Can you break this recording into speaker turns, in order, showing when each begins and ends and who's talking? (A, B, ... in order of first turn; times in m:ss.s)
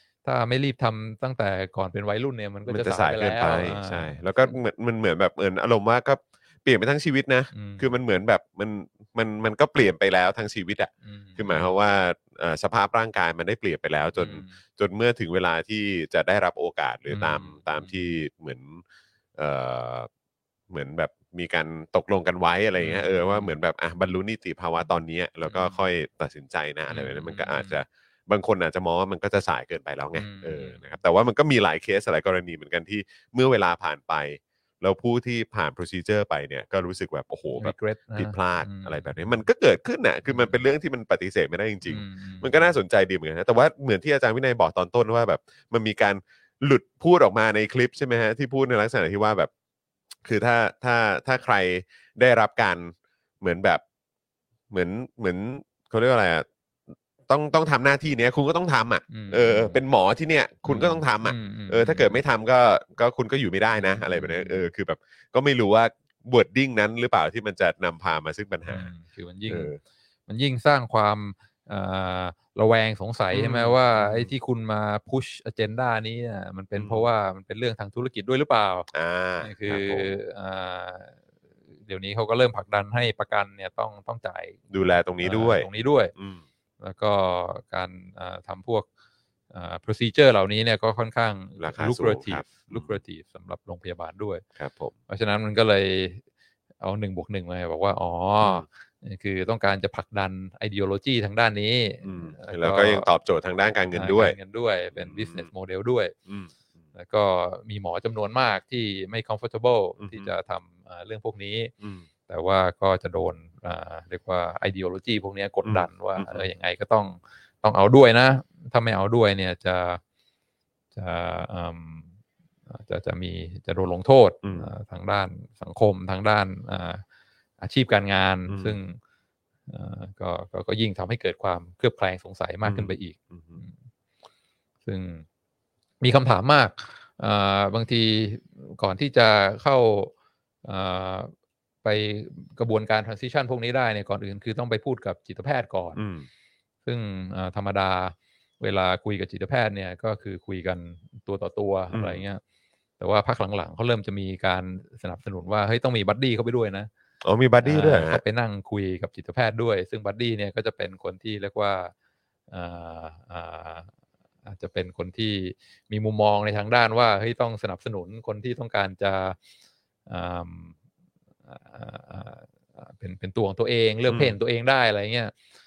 0:00.2-0:04.6 A
0:02.7-0:18.8 B
0:07.5-0:07.8 A
0:11.0-0:11.7 A
0:14.2-0:14.6 A
0:17.1-0:18.0 A
0:19.4-0:20.1 B
0:20.7-0:49.5 B
0:22.8-0:23.6 A
0:25.4-0:25.8 A
0:26.9-0:27.7 A
0:30.2-0:31.0 A
0:37.6-0:39.4 A
0:40.3-0:40.6 A
0:41.8-0:42.8 A
0:50.2-0:53.8 B
0:54.7-0:56.4 B
0:57.3-1:08.9 B
0:59.1-0:59.8 A
1:00.6-1:02.2 A
1:03.8-1:04.7 A
1:08.7-1:09.7 A
1:09.5-1:09.8 B
1:10.3-1:18.9 A
1:13.3-1:14.3 B
1:16.8-1:17.1 B
1:18.9-1:20.2 B
1:19.4-1:21.1 A
1:21.8-1:24.6 A
1:24.7-1:26.4 B
1:25.2-1:26.1 A
1:26.8-1:28.9 A
1:29.5-1:34.4 A
1:31.6-1:33.0 B
1:34.6-1:34.9 B
1:35.1-1:36.2 A
1:36.8-1:43.1 A
1:42.0-1:44.4 B
1:43.9-1:46.1 A
1:44.9-1:45.5 B
1:46.3-1:46.5 B
1:46.9-1:51.7 A
1:50.0-1:50.3 B
1:52.3-2:00.0 A
1:55.6-1:56.4 B
2:00.9-2:02.1 A
2:02.7-2:07.0 A
2:04.4-2:04.7 B
2:07.6-2:09.0 A
2:08.5-2:08.8 B
2:09.7-2:13.7 A
2:12.6-2:13.6 B
2:14.8-2:15.2 A
2:16.0-2:20.1 A
2:20.6-2:26.0 A
2:26.0-2:26.2 B
2:26.8-2:32.4 A
2:31.9-2:32.2 B
2:33.0-2:36.9 A
2:37.2-2:38.2 B
2:37.6-2:41.9 A
2:42.5-2:43.9 A
2:44.4-2:49.4 A
2:50.1-2:50.7 A
2:51.5-2:55.3 A
2:54.1-2:54.3 B